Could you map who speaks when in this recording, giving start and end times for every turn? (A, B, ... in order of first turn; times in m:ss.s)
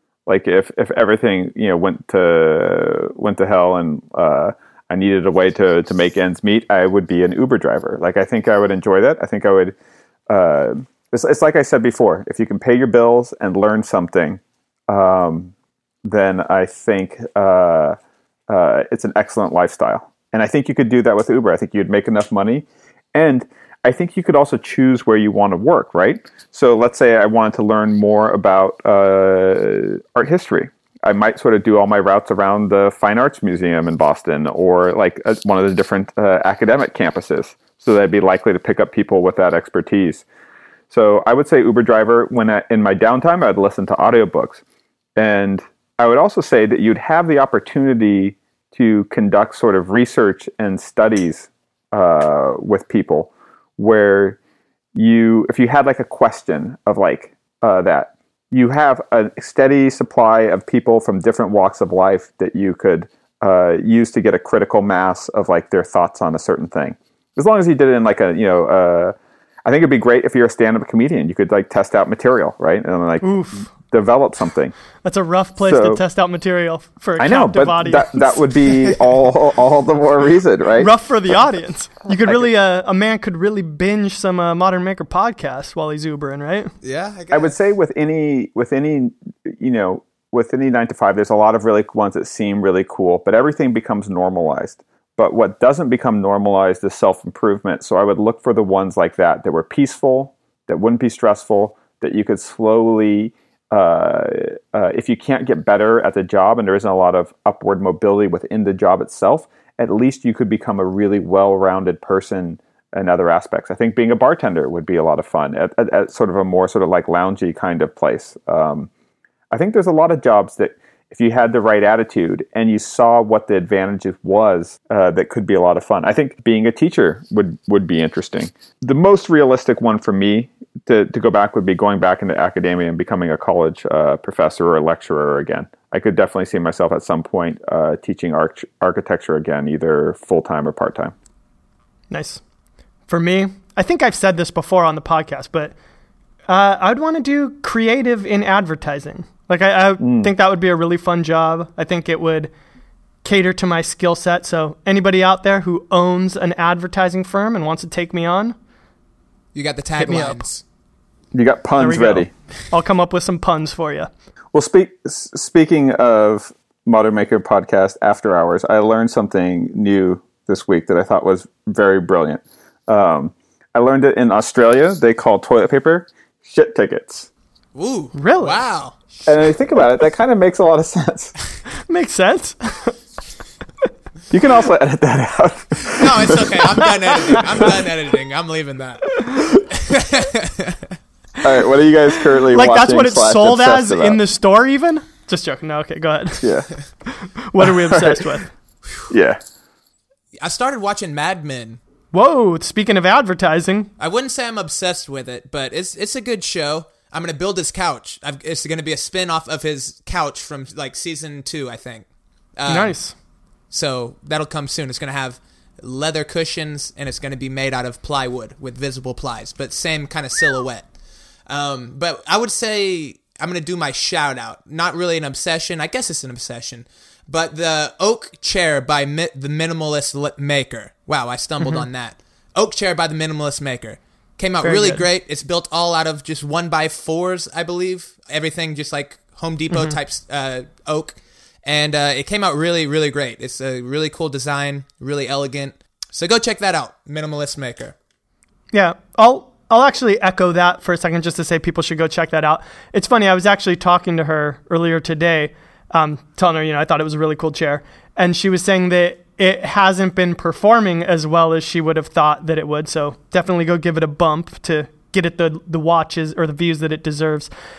0:00.3-0:09.8 A
0:10.3-0:15.5 A
0:16.0-0:18.0 A
0:18.5-0:40.2 A
0:40.9-0:44.6 A
0:45.2-0:54.4 A
0:55.0-1:09.1 A
1:09.7-1:14.8 A
1:13.2-1:13.7 B
1:15.0-1:18.7 B
1:15.6-1:16.0 A
1:17.2-1:20.9 A
1:20.8-1:26.7 B
1:22.2-1:22.5 A
1:26.8-1:27.5 C
1:27.3-1:58.9 A
1:59.5-2:21.1 A
2:22.1-2:22.4 B
2:23.1-2:25.7 B
2:26.5-2:32.5 B
2:30.0-2:30.3 A
2:33.2-2:38.6 B
2:39.5-2:40.6 C
2:40.0-2:40.4 B
2:41.3-2:42.3 A
2:41.8-2:44.1 B
2:44.5-2:57.3 A
2:57.8-2:59.5 C
2:58.2-2:58.6 B
2:59.3-3:01.3 A
3:01.9-3:03.0 B
3:04.3-3:07.8 A
3:05.9-3:11.0 C
3:11.4-3:14.2 A
3:12.5-3:16.5 B
3:16.4-3:16.7 A
3:17.1-3:18.5 B
3:17.6-3:18.4 A
3:19.1-3:19.4 A
3:20.4-3:21.8 C
3:22.1-3:23.9 B
3:24.0-3:32.1 C
3:32.6-3:33.0 C
3:32.7-3:33.1 B
3:33.7-3:40.9 C
3:41.5-4:08.0 C
3:51.6-3:51.9 B
3:54.6-3:55.1 B
4:08.7-4:27.5 B